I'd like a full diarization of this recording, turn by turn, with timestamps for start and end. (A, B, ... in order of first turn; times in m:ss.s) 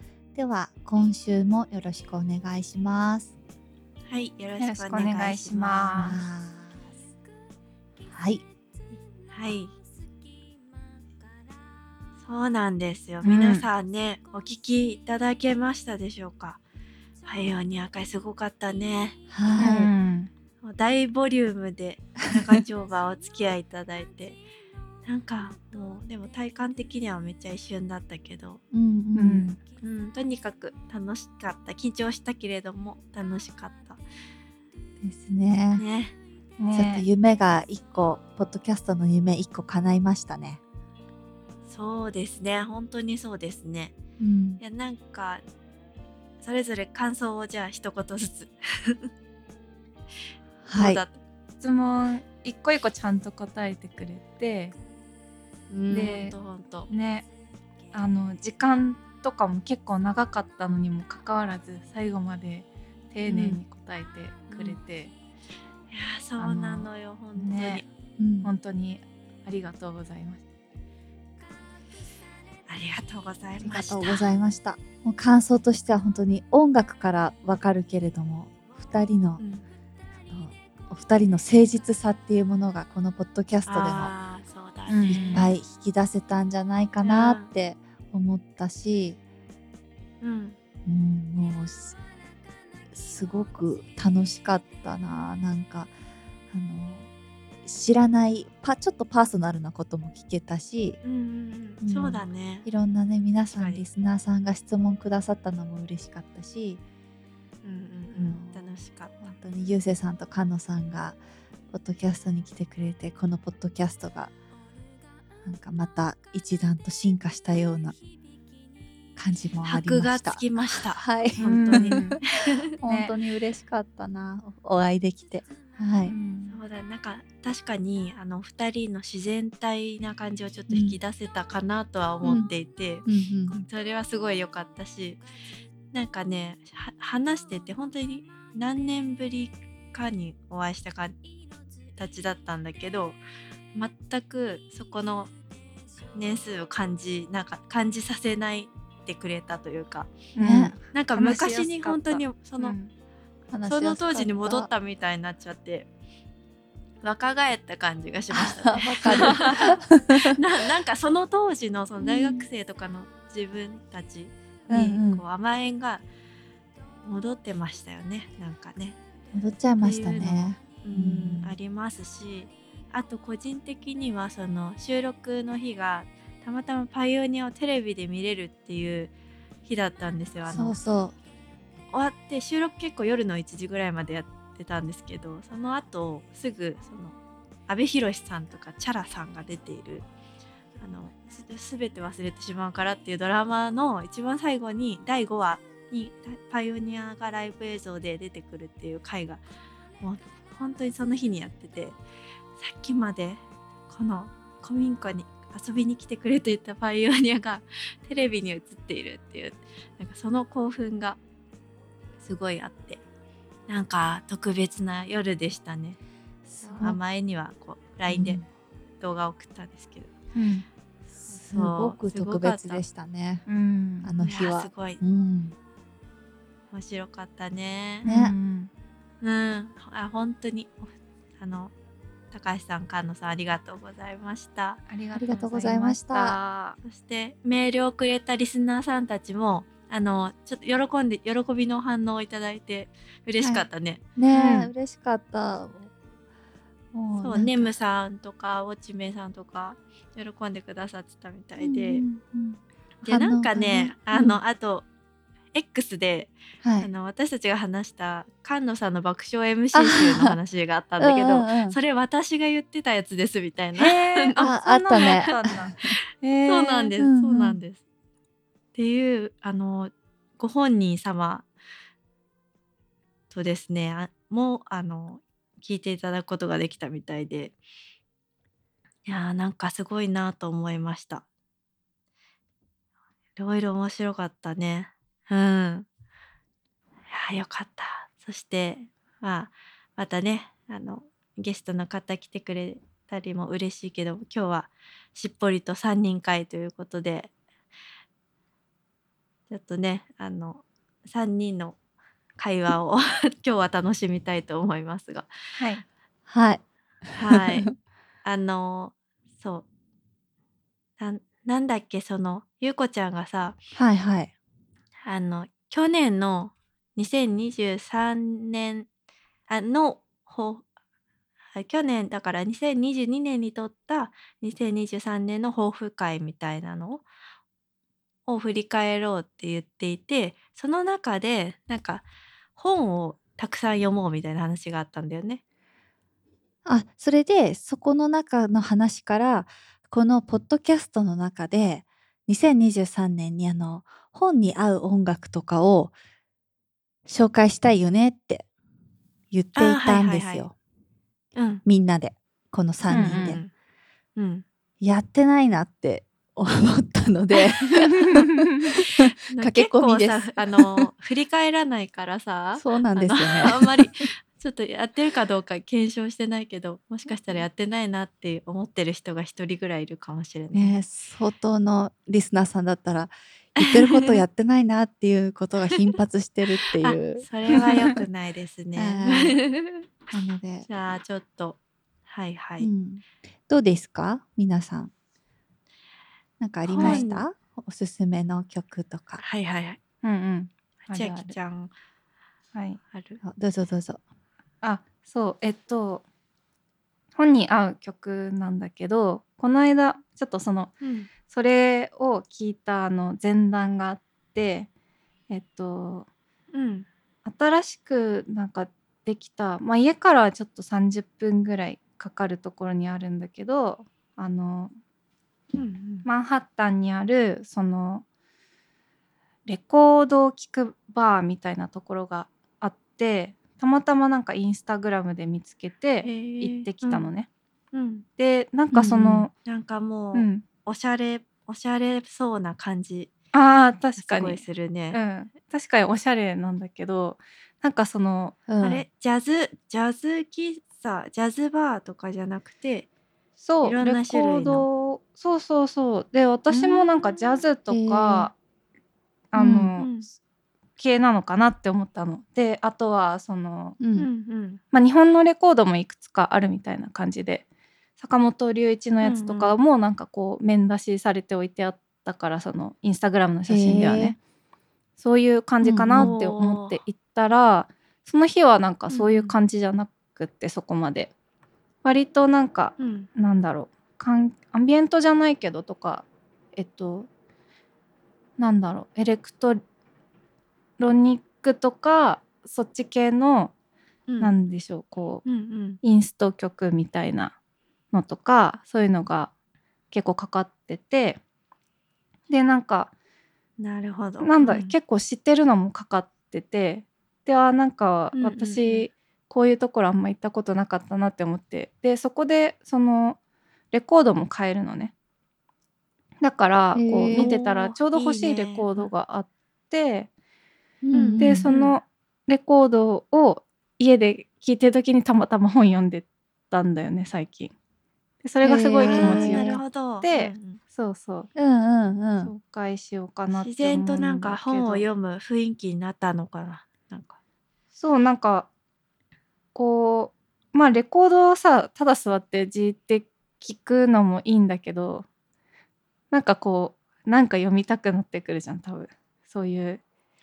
0:00.3-0:03.3 A
0:04.1-0:06.2 B
0:04.6-0:06.2 C
0:05.9-0:06.8 A
0:08.1-0:08.4 A
0:09.3-0:09.7 B
0:12.2-0:16.6 B
0:13.2-0:13.7 C
0:17.2-0:19.6 B
0:19.3-0:19.9 A
0:19.6-0:20.3 C
0:20.6-0:24.4 B
0:25.0-0:28.6 B
0:28.7-0:29.5 A
0:29.1-0:29.6 C
0:29.8-0:34.0 B
0:35.0-0:35.8 A
0:35.7-0:36.2 B
0:36.6-0:37.0 C
0:36.7-0:40.6 A
0:41.7-0:43.9 B
0:44.2-0:44.6 A
0:44.6-0:45.4 B
0:46.4-0:49.1 B
0:50.6-0:51.0 A
0:50.7-0:51.2 B
0:51.6-0:54.7 C
0:55.7-0:56.1 A
0:55.9-0:56.3 C
0:56.0-0:56.9 B
0:56.9-0:57.3 C
0:57.9-1:05.1 C
1:03.3-1:03.6 A
1:04.5-1:04.8 B
1:05.9-1:07.8 B
1:06.4-1:07.8 C
1:08.2-1:08.5 A
1:08.4-1:10.4 C
1:12.7-1:14.3 B
1:13.6-1:19.4 A
1:19.4-1:19.6 B
1:20.3-1:24.1 A
1:23.7-1:25.5 B
1:24.9-1:25.5 C
1:25.1-1:29.2 A
1:27.0-1:27.5 B
1:30.2-1:30.6 B
1:30.8-1:32.0 A
1:32.9-1:35.9 A
1:36.5-1:37.1 A
1:37.6-1:41.0 A
1:41.0-1:42.6 B
1:41.8-1:46.8 A
1:43.6-1:43.8 B
1:47.6-1:49.3 B
1:48.1-1:51.2 A
1:51.7-1:54.3 A
1:55.4-1:58.0 A
1:59.2-2:02.2 A
1:59.6-2:02.6 B
2:01.4-2:02.2 C
2:02.7-2:06.1 A
2:02.8-2:03.1 C
2:06.0-2:06.6 C
2:06.5-2:15.2 B
2:10.7-2:11.0 A
2:12.2-2:12.5 A
2:13.0-2:13.6 A
2:15.9-2:21.2 B
2:22.0-2:23.2 B
2:23.7-2:25.3 B
2:26.1-2:30.1 B
2:30.4-2:32.9 C
2:30.4-2:30.7 A
2:30.8-2:32.8 B
2:33.5-2:34.7 A
2:33.6-2:35.9 B
2:37.0-2:46.0 B
2:38.3-2:40.4 A
2:38.8-2:39.6 C
2:42.0-2:42.5 A
2:44.7-2:45.2 A
2:47.0-2:49.0 B
2:49.3-2:51.6 A
2:49.8-2:59.1 B
2:59.6-3:00.8 B
3:00.5-3:01.1 A
3:01.9-3:07.2 B
3:07.7-3:10.0 B
3:10.8-3:19.4 B
3:20.0-3:22.0 B
3:22.6-3:31.2 B
3:32.2-3:33.0 B
3:33.7-3:36.0 B
3:36.5-3:37.0 A
3:36.8-3:38.4 B
3:38.1-3:38.4 A
3:39.0-3:40.1 B
3:40.3-3:40.6 C
3:41.1-3:43.4 A
3:41.5-3:42.8 B
3:43.5-3:44.1 C
3:44.0-3:45.5 A
3:44.2-3:45.0 B
3:46.7-3:48.0 B
3:48.0-3:48.7 C
3:48.0-3:48.3 A
3:49.2-3:50.9 B
3:51.4-3:51.7 B
3:52.3-3:54.8 B
3:54.9-3:56.8 C
3:55.2-3:56.4 A
3:56.8-4:04.0 B
4:03.4-4:05.9 A
4:04.3-4:04.7 C
4:06.9-4:07.7 A
4:07.2-4:12.0 B
4:11.6-4:14.4 A
4:13.0-4:14.8 B
4:15.5-4:25.9 B
4:16.6-4:16.9 A
4:19.7-4:20.4 A
4:21.0-4:21.8 A
4:23.7-4:26.9 C
4:24.4-4:25.7 A
4:26.5-4:27.8 B
4:27.0-4:27.6 A
4:28.7-4:31.5 B
4:33.3-4:37.5 B
4:39.0-4:41.2 B
4:43.4-4:45.8 B
4:47.1-4:57.3 B
4:59.5-5:01.8 B
5:02.4-5:05.3 B
5:05.6-5:05.8 C
5:06.3-5:07.7 A
5:07.2-5:07.7 B
5:08.2-5:09.6 B
5:11.0-5:13.6 B
5:13.8-5:14.3 A
5:15.0-5:18.9 B
5:19.5-5:20.6 B
5:21.5-5:27.0 B
5:28.3-5:32.0 B
5:32.6-5:35.4 B
5:36.6-5:45.9 A
5:47.1-5:48.4 A
5:49.3-5:50.5 A
5:49.6-5:50.4 B
5:51.3-5:51.6 B
5:51.6-5:53.4 A
5:52.9-5:53.4 C
5:52.9-5:53.5 B
5:54.2-5:54.4 B
5:54.8-6:00.9 A
5:57.4-5:57.9 B
5:58.0-5:58.7 C
5:59.3-6:10.8 B
6:02.6-6:04.0 A
6:10.5-6:18.0 A
6:13.6-6:14.2 B
6:16.8-6:19.8 B
6:17.6-6:17.9 C
6:18.8-6:19.4 A
6:20.1-6:20.7 A
6:20.7-6:22.7 B
6:22.6-6:24.9 A
6:26.4-6:29.2 A
6:26.6-6:27.2 B
6:26.8-6:27.0 C
6:29.2-6:29.8 B
6:30.0-6:31.4 C
6:30.9-6:31.7 B
6:32.5-6:32.8 C
6:32.9-6:33.2 B
6:33.2-6:34.0 A
6:34.6-6:36.0 C
6:37.1-6:40.7 C
6:40.8-6:41.1 B
6:41.2-6:44.7 C
6:45.3-6:46.1 C
6:46.5-6:46.9 B
6:47.2-6:54.7 C
6:55.5-6:56.0 B
6:56.0-6:58.0 C
6:59.4-7:07.3 C
7:06.0-7:07.1 B
7:07.7-7:08.0 B
7:08.2-7:09.3 C
7:08.7-7:09.3 A
7:09.4-7:13.1 B
7:10.1-7:10.4 C
7:13.3-7:18.4 C
7:14.0-7:15.0 B
7:18.5-7:18.8 A
7:18.6-7:22.9 B
7:23.4-7:28.3 C
7:23.6-7:24.6 B
7:26.5-7:27.5 B
7:27.7-7:28.3 A
7:29.3-7:30.0 C
7:29.4-7:29.7 A
7:29.8-7:30.1 B
7:30.8-7:33.8 C
7:33.8-7:34.1 A
7:34.0-7:34.6 B
7:34.7-7:37.4 C
7:38.0-7:44.2 C
7:39.0-7:39.6 B
7:43.5-7:44.2 A
7:45.0-7:51.1 C
7:45.6-7:46.1 A
7:45.9-7:46.8 B
7:48.9-7:49.4 B
7:51.8-7:57.1 C
7:52.8-7:53.1 B
7:58.4-7:59.6 C
8:00.8-8:03.5 C
8:04.1-8:04.3 B
8:04.2-8:05.2 C
8:05.2-8:05.8 B
8:05.8-8:07.3 C
8:07.9-8:09.3 C
8:09.9-8:11.2 C
8:12.3-8:12.9 C
8:13.6-8:14.7 B
8:14.2-8:23.2 C
8:18.1-8:18.8 B
8:23.7-8:24.9 C
8:26.2-8:30.1 C
8:26.7-8:27.3 A
8:27.1-8:28.9 B
8:30.8-8:31.5 A
8:30.9-8:31.8 B
8:31.2-8:37.5 C
8:38.2-8:41.3 C
8:38.4-8:39.6 A
8:38.8-8:40.6 B
8:41.3-8:42.3 A
8:42.2-8:44.8 C
8:43.3-8:47.2 B
8:47.7-8:48.5 C
8:49.5-8:55.0 C
8:56.1-8:59.8 C